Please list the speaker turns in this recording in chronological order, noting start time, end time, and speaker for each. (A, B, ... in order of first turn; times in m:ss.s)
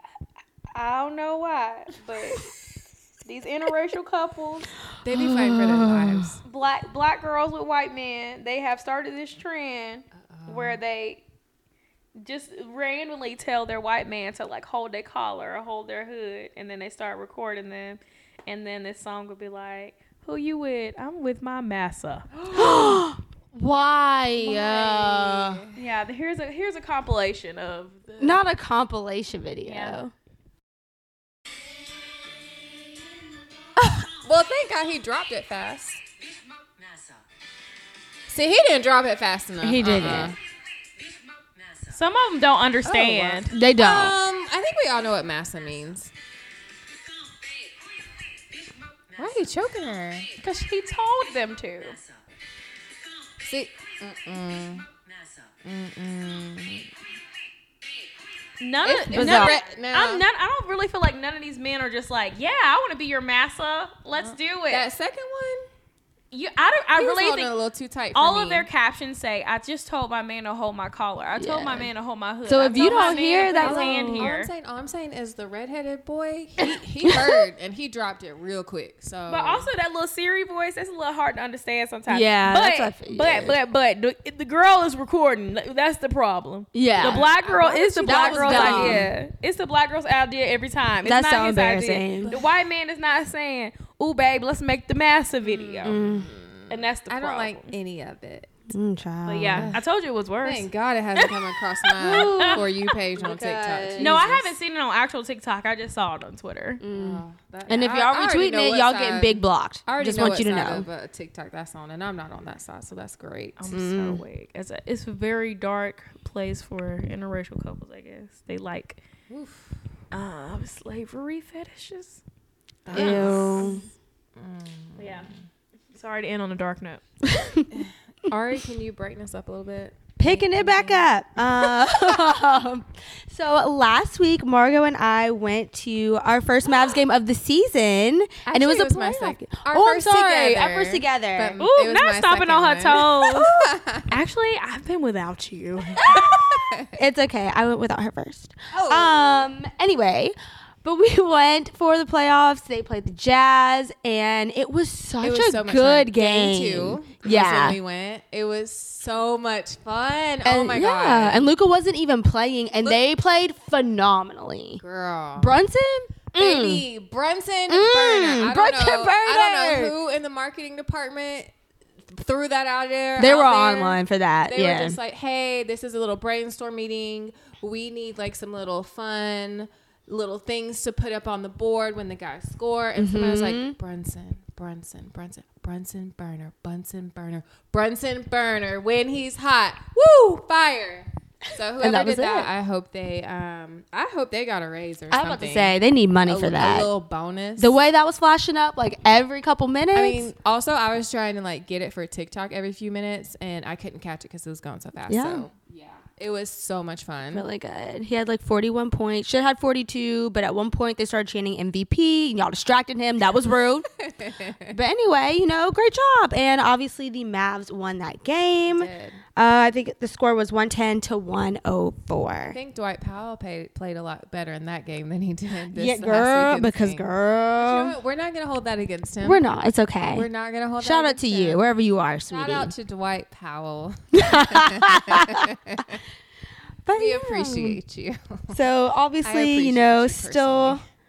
0:00.7-0:02.5 A
0:03.2-0:04.7 A
0:05.0-0:06.4 B
0:05.1-0:06.3 C
0:06.4-0:11.2 A
0:10.2-0:10.8 B
0:12.2-0:22.4 A
0:22.4-0:23.0 B
0:22.5-0:25.6 C
0:24.4-0:25.8 B
0:25.7-0:28.4 A
0:28.2-0:30.1 C
0:29.6-0:30.0 A
0:33.8-0:34.0 C
0:34.0-0:36.0 B
0:38.3-0:40.4 B
0:39.6-0:40.4 C
0:41.9-0:43.5 A
0:42.8-0:46.1 B
0:43.5-0:44.2 C
0:49.2-0:50.3 B
0:50.4-0:52.0 A
0:53.4-0:54.9 B
0:55.6-0:56.9 B
0:58.6-1:04.8 A
0:58.8-1:00.2 B
0:59.1-0:59.6 C
1:04.2-1:05.6 B
1:06.3-1:07.5 A
1:07.0-1:08.7 B
1:08.1-1:14.5 A
1:11.4-1:11.9 C
1:12.4-1:14.3 C
1:13.6-1:19.7 B
1:16.6-1:17.4 C
1:19.3-1:36.0 A
1:22.1-1:23.6 C
1:26.7-1:27.3 C
1:27.0-1:29.1 B
1:28.0-1:29.1 C
1:31.0-1:32.3 C
1:32.2-1:32.5 B
1:35.4-1:38.5 B
1:35.8-1:36.3 C
1:36.7-1:37.7 A
1:38.7-1:39.7 C
1:39.2-1:41.4 A
1:39.5-1:39.8 B
1:40.4-1:44.5 B
1:42.0-1:44.2 C
1:42.0-1:42.6 A
1:44.0-1:46.8 A
1:46.8-1:50.9 C
1:46.9-1:53.8 B
1:53.6-1:59.0 A
1:53.7-1:54.2 C
1:59.3-1:59.7 B
2:00.1-2:02.2 A
2:02.8-2:03.8 B
2:02.9-2:03.8 C
2:02.9-2:03.8 A
2:04.4-2:05.3 B
2:05.0-2:05.3 A
2:05.9-2:07.0 A
2:07.3-2:07.7 C
2:07.7-2:12.0 B
2:10.2-2:21.6 C
2:18.4-2:24.2 B
2:21.6-2:26.4 A
2:26.0-2:27.0 B
2:27.0-2:37.8 C
2:28.7-2:29.5 B
2:35.2-2:41.5 B
2:40.4-2:44.8 C
2:44.8-2:45.6 B
2:45.4-2:46.8 C
2:46.3-2:51.5 B
2:47.7-2:49.9 C
2:52.1-3:17.8 B
2:53.2-2:55.0 C
3:03.0-3:03.7 C
3:11.8-3:12.5 C
3:15.1-3:16.9 C
3:17.6-3:20.3 C
3:19.9-3:27.5 B
3:25.1-3:25.5 C
3:27.3-3:33.9 C
3:34.0-3:34.8 B
3:34.7-3:42.6 C
3:38.6-3:39.2 B
3:42.5-3:49.4 B
3:45.7-3:48.0 C
3:49.2-3:50.3 C
3:50.1-3:51.6 B
3:50.8-3:52.7 C
3:52.3-3:56.0 B
3:54.1-3:55.5 C
3:56.8-3:57.8 C
3:57.0-3:58.6 B
3:58.5-4:00.8 C
3:59.2-4:00.8 B